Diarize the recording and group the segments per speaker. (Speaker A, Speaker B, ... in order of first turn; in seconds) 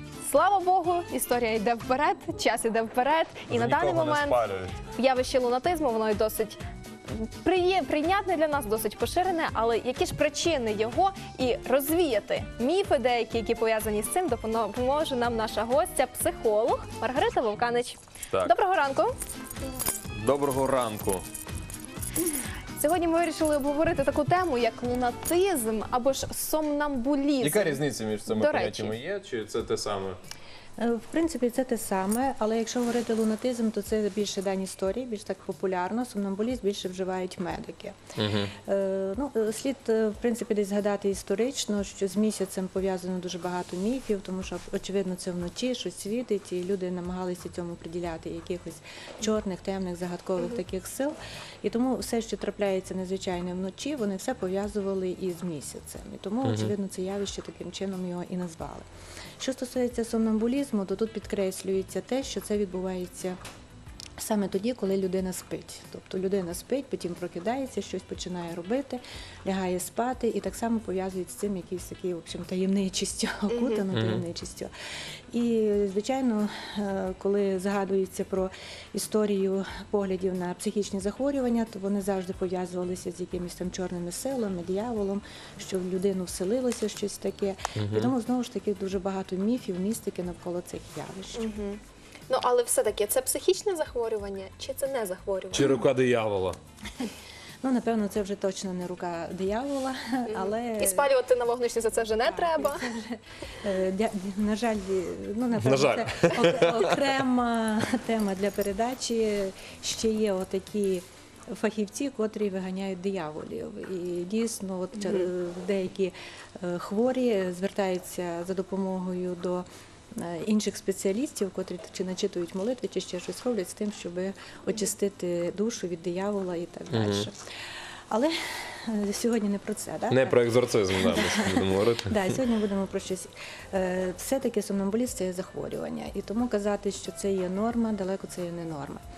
Speaker A: 0.2-19.1, 22.8-28.9, 73.5-73.8, 91.3-95.8, 100.3-102.8, 114.9-115.3
Speaker B: 3.5-4.8, 20.1-21.2, 27.4-30.2, 38.1-38.5, 56.4-56.7, 73.9-74.2, 87.8-88.1, 95.5-96.6, 105.6-107.0, 126.9-127.3, 130.1-132.2
Speaker C: 30.8-38.0, 38.6-58.9, 59.4-63.4, 64.2-74.7, 75.3-91.5, 97.6-101.2, 102.0-127.3, 128.1-130.4, 131.0-139.0